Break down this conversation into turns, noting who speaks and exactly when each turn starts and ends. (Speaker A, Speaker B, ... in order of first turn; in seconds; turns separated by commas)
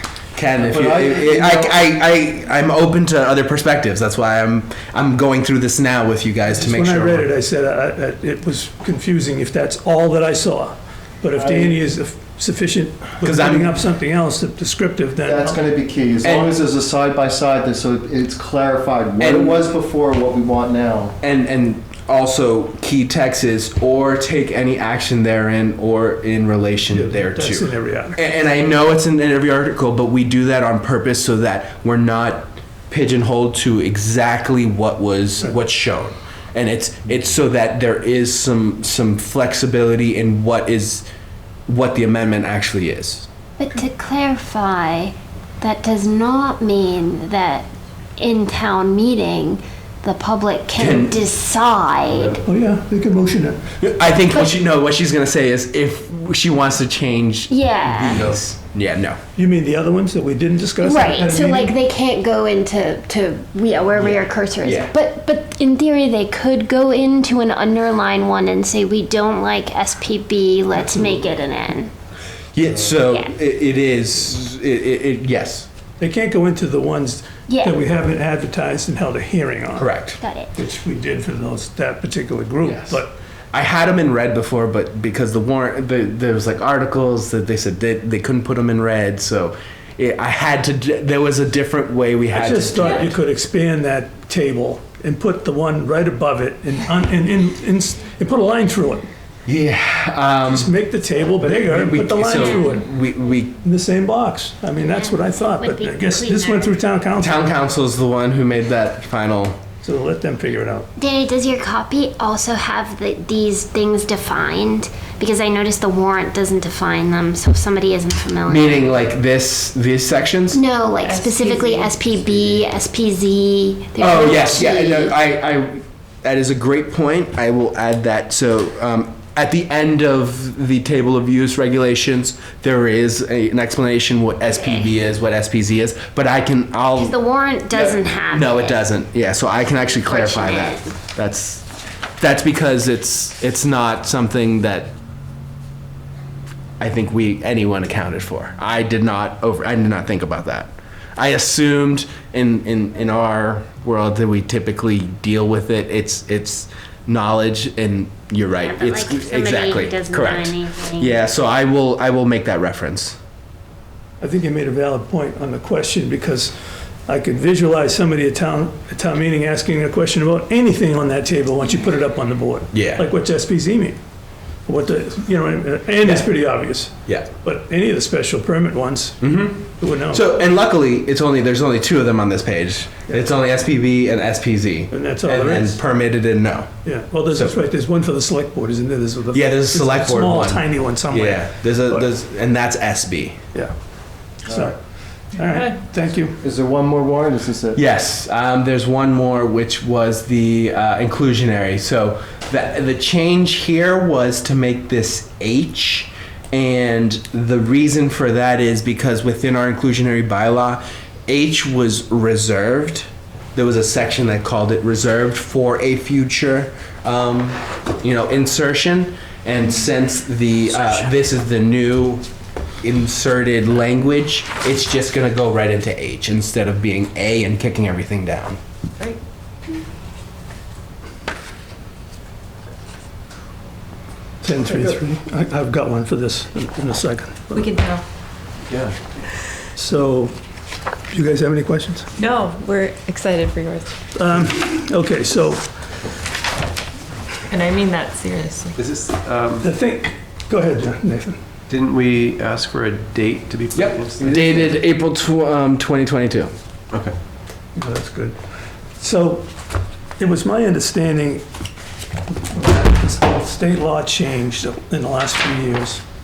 Speaker A: 0.3-7.3, Speaker B: 0.6-1.8, Speaker C: 6.5-15.6, Speaker B: 11.3-11.8, Speaker A: 13.2-13.7, Speaker B: 15.2-21.2, Speaker A: 16.2-16.6, Speaker A: 19.2-19.6, Speaker A: 21.2-41.1, Speaker C: 26.9-28.2, Speaker A: 41.7-43.3, Speaker D: 43.6-52.4, Speaker A: 50.8-51.3, Speaker C: 52.4-53.6, Speaker A: 53.8-59.2, Speaker D: 57.5-58.4, Speaker C: 59.4-61.7, Speaker D: 60.8-71.9, Speaker A: 64.0-64.9, Speaker C: 70.8-71.2, Speaker A: 72.5-75.7, Speaker D: 73.1-73.3, Speaker C: 76.0-79.9, Speaker D: 77.5-77.8, Speaker A: 79.8-80.2, Speaker D: 80.2-80.5, Speaker C: 80.5-83.1, Speaker A: 82.6-83.0, Speaker A: 83.5-93.2, Speaker C: 92.3-99.1, Speaker A: 99.5-100.7, Speaker C: 100.5-102.9, Speaker A: 101.4-103.5, Speaker D: 102.3-102.6, Speaker C: 103.6-107.5, Speaker D: 104.8-106.8, Speaker A: 107.2-109.6, Speaker C: 109.8-110.9, Speaker D: 111.0-118.9, Speaker A: 118.5-120.6, Speaker D: 120.5-125.2, Speaker E: 121.0-122.7, Speaker A: 124.0-137.2, Speaker D: 134.6-134.9, Speaker D: 137.0-138.9, Speaker A: 137.7-141.7, Speaker D: 139.9-140.9, Speaker A: 142.2-144.9, Speaker A: 146.8-163.2, Speaker D: 158.6-161.2, Speaker C: 164.2-174.0, Speaker A: 172.7-173.1, Speaker C: 174.7-180.3, Speaker A: 179.2-186.7, Speaker C: 184.9-185.8, Speaker C: 186.8-192.1, Speaker A: 187.3-187.6, Speaker A: 189.3-193.4, Speaker C: 194.4-194.8, Speaker C: 195.3-196.4, Speaker E: 195.4-195.8, Speaker B: 196.4-197.8, Speaker A: 197.8-222.2, Speaker A: 222.8-228.6, Speaker C: 234.4-237.7, Speaker E: 237.5-238.0, Speaker F: 238.7-239.0, Speaker C: 239.8-240.4, Speaker C: 241.1-242.1, Speaker E: 242.2-243.9, Speaker C: 244.2-245.7, Speaker E: 247.5-248.8, Speaker F: 248.8-249.7, Speaker C: 249.6-251.4, Speaker F: 251.7-254.7, Speaker A: 253.7-256.5, Speaker C: 257.8-258.4, Speaker C: 259.0-259.5, Speaker C: 260.2-261.4, Speaker C: 262.3-266.0